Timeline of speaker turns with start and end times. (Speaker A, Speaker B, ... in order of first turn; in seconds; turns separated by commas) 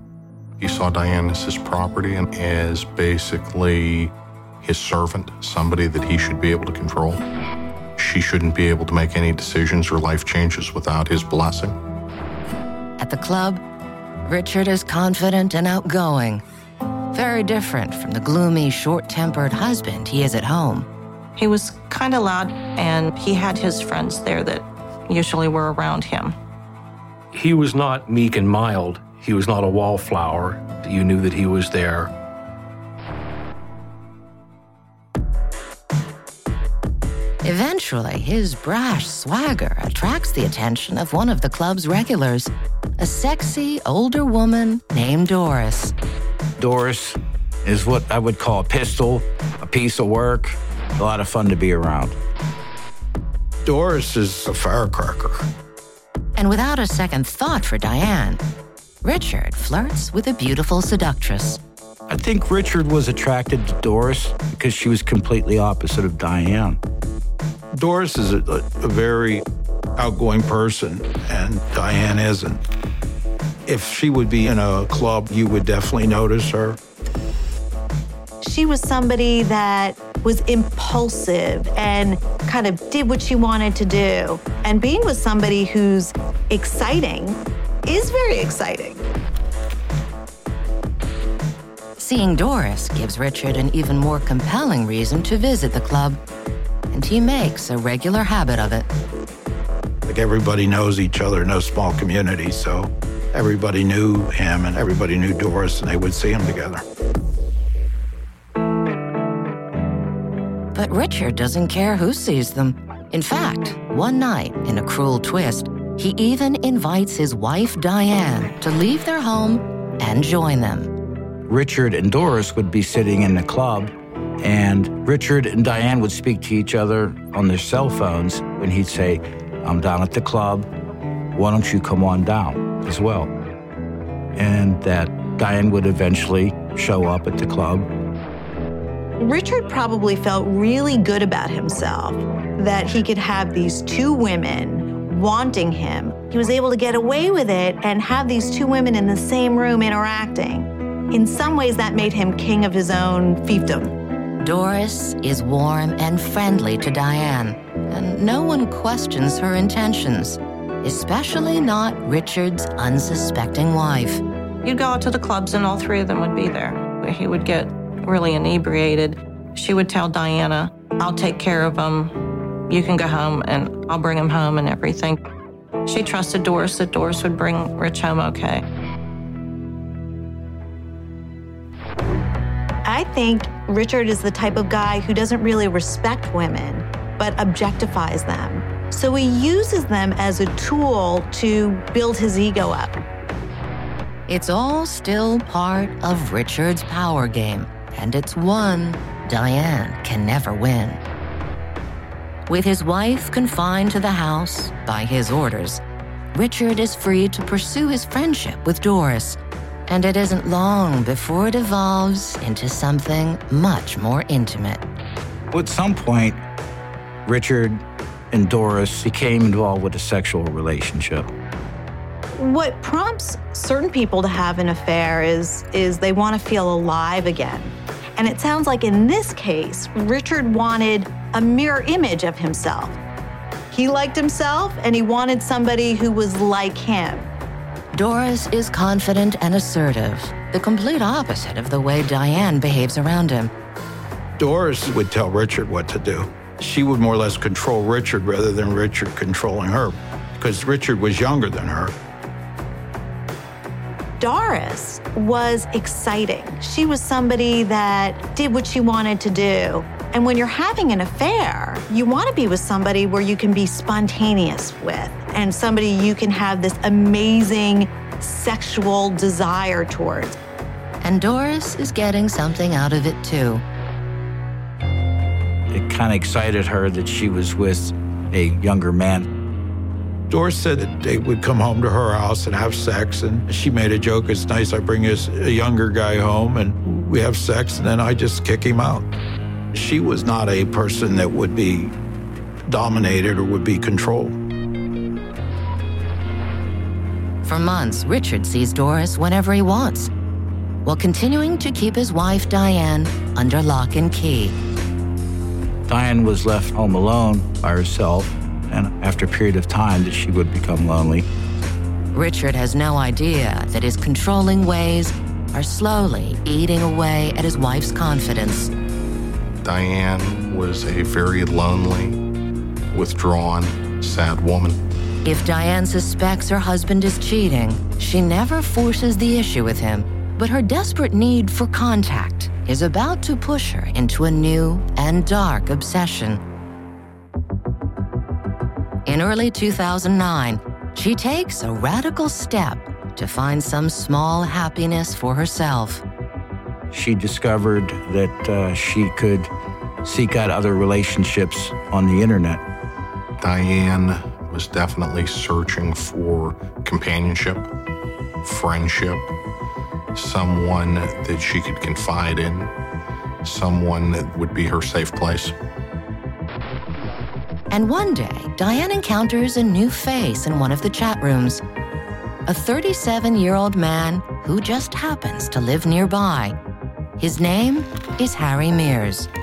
Speaker A: 0.6-7.2, Speaker A: 8.0-11.8, Speaker B: 13.0-13.6, Speaker B: 14.2-16.4, Speaker B: 17.1-20.9, Speaker C: 21.4-26.3, Speaker D: 27.3-32.1, Speaker B: 37.4-45.9, Speaker E: 46.6-52.2, Speaker F: 53.6-55.5, Speaker B: 56.4-58.4, Speaker B: 59.0-61.6, Speaker E: 62.1-66.8, Speaker F: 67.7-69.4, Speaker F: 70.0-72.6, Speaker F: 73.7-76.8, Speaker G: 78.4-89.0, Speaker B: 92.0-96.2, Speaker B: 96.9-98.9, Speaker F: 100.1-106.8, Speaker B: 110.7-120.9, Speaker E: 121.5-130.7, Speaker E: 131.3-133.3, Speaker E: 134.3-137.9, Speaker G: 139.2-153.9, Speaker B: 154.4-164.2, Speaker C: 164.6-172.1, Speaker C: 172.7-175.2, Speaker C: 175.9-178.6, Speaker G: 182.8-193.0, Speaker B: 194.3-201.0, Speaker B: 202.5-205.8, Speaker B: 206.3-214.8, Speaker E: 215.5-216.4, Speaker E: 217.2-221.3, Speaker G: 222.4-233.0, Speaker G: 233.7-237.3, Speaker B: 237.9-243.5, Speaker F: 244.4-251.9, Speaker G: 254.2-270.4, Speaker B: 271.0-273.6, Speaker E: 275.7-279.3, Speaker F: 280.3-289.1, Speaker F: 289.7-291.9, Speaker F: 292.7-294.4, Speaker B: 297.4-300.1, Speaker B: 300.9-304.6, Speaker E: 305.9-311.3, Speaker B: 312.1-318.7, Speaker A: 319.6-322.2, Speaker A: 322.9-324.8, Speaker B: 325.2-336.4, Speaker B: 339.1-346.0, Speaker E: 346.9-349.5, Speaker E: 350.0-352.6, Speaker A: 353.4-357.7, Speaker A: 358.4-359.3, Speaker A: 360.1-362.7, Speaker A: 363.4-365.5, Speaker B: 367.7-371.6, Speaker B: 372.5-376.6, Speaker B: 377.2-379.3